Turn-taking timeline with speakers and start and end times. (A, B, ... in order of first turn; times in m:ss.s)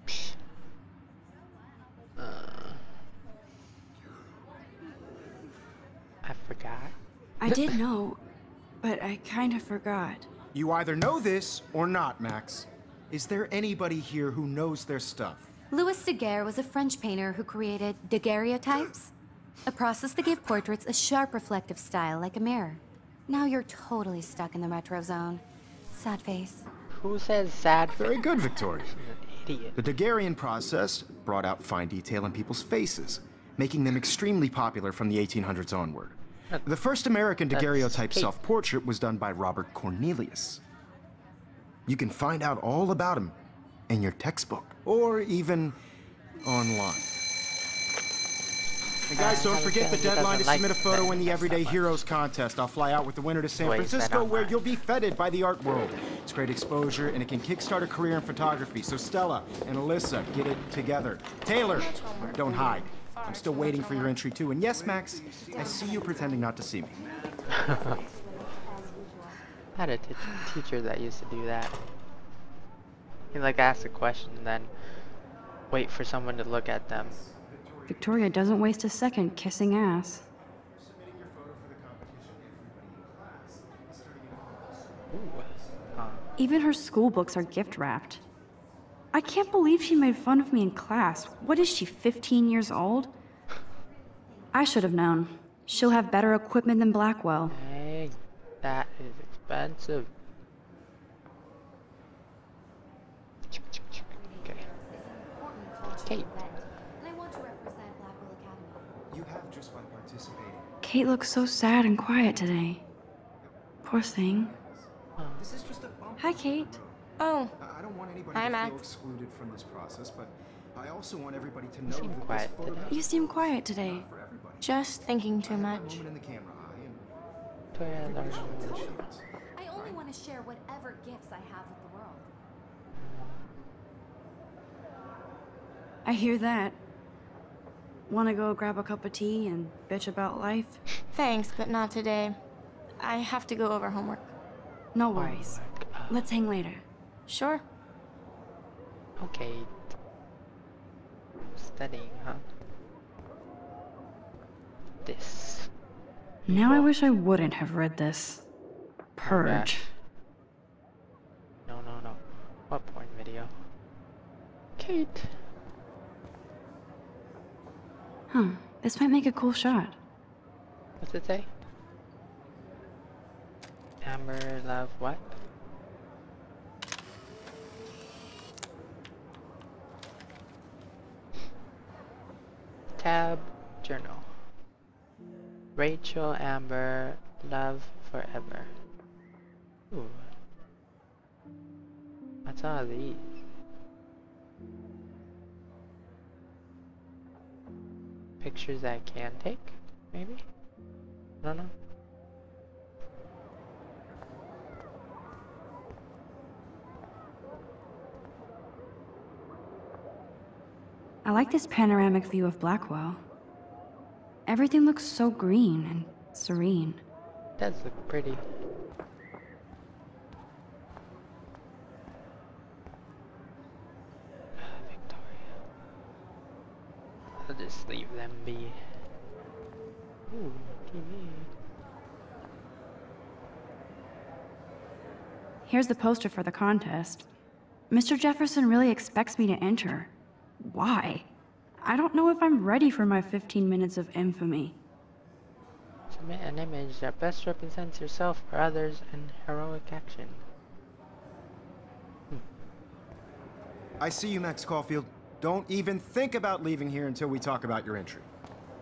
0:02.2-0:02.8 A
0:06.2-0:06.9 A
0:07.4-0:08.2 B
0:08.8-0:10.3 B
0:10.5-0:15.5 C
0:15.7-0:19.1 D
0:19.6-0:26.6 D
0:26.9-0:29.8 A
0:27.9-0:29.0 C
0:29.8-0:40.6 C
0:37.5-0:38.3 A
0:41.9-0:43.4 C
0:43.9-0:45.8 C
0:46.4-0:47.1 C
0:49.1-1:07.0 C
0:49.2-0:52.0 A
0:53.6-0:54.6 A
1:01.6-1:04.2 E
1:05.3-1:06.4 D
1:07.0-1:09.4 D
1:07.5-1:07.9 A
1:09.8-1:11.8 A
1:13.3-1:14.7 A
1:15.7-1:17.1 A
1:16.9-1:18.6 C
1:17.9-1:20.2 B
1:20.7-1:25.9 C
1:25.1-1:26.2 A
1:26.4-1:28.2 B
1:29.1-1:33.1 B
1:34.5-1:37.6 B
1:35.7-1:36.3 D
1:37.5-1:40.1 A
1:44.1-1:48.9 D
1:49.1-1:50.7 C
1:50.8-1:52.8 B
1:53.4-1:57.1 C
1:53.8-1:54.5 B
1:55.2-1:55.5 A
1:56.2-1:56.8 B
1:57.2-1:57.5 E
1:57.6-2:04.8 C
1:58.3-1:58.8 E
2:01.9-2:02.9 A
2:02.9-2:04.0 B
2:04.6-2:06.0 E
2:05.4-2:07.0 C
2:07.7-2:08.9 A
2:07.8-2:09.2 C
2:09.5-2:12.3 D
2:13.0-2:13.4 A
2:16.0-2:16.8 B
2:18.1-2:20.8 B
2:21.1-2:22.4 E
2:23.0-2:24.3 E
2:24.9-2:26.8 B
2:25.1-2:26.2 A
2:27.3-2:27.6 E
2:29.2-2:29.8 A
2:31.5-2:32.4 A
2:35.0-2:35.7 A
2:36.5-2:36.9 A
2:36.5-2:38.4 B
2:39.2-2:39.9 B
2:39.2-2:39.9 A
2:41.7-2:43.5 A
2:44.8-2:45.3 A
2:48.3-2:49.9 B
2:51.0-2:51.5 A
2:54.0-2:55.4 A
3:03.0-3:04.3 A
3:05.8-3:08.7 A
3:09.9-3:10.3 A
3:12.4-3:13.4 A
3:18.4-3:20.4 A
3:21.4-3:21.7 A
3:31.2-3:33.2 B
3:34.5-3:37.0 B
3:37.6-3:38.4 A
3:44.6-3:45.5 A
3:47.4-3:48.8 A
3:50.3-3:51.5 A
3:55.7-3:57.3 B
3:57.9-4:01.2 B
4:01.8-4:04.8 B
4:06.1-4:10.4 A
4:14.0-4:18.3 C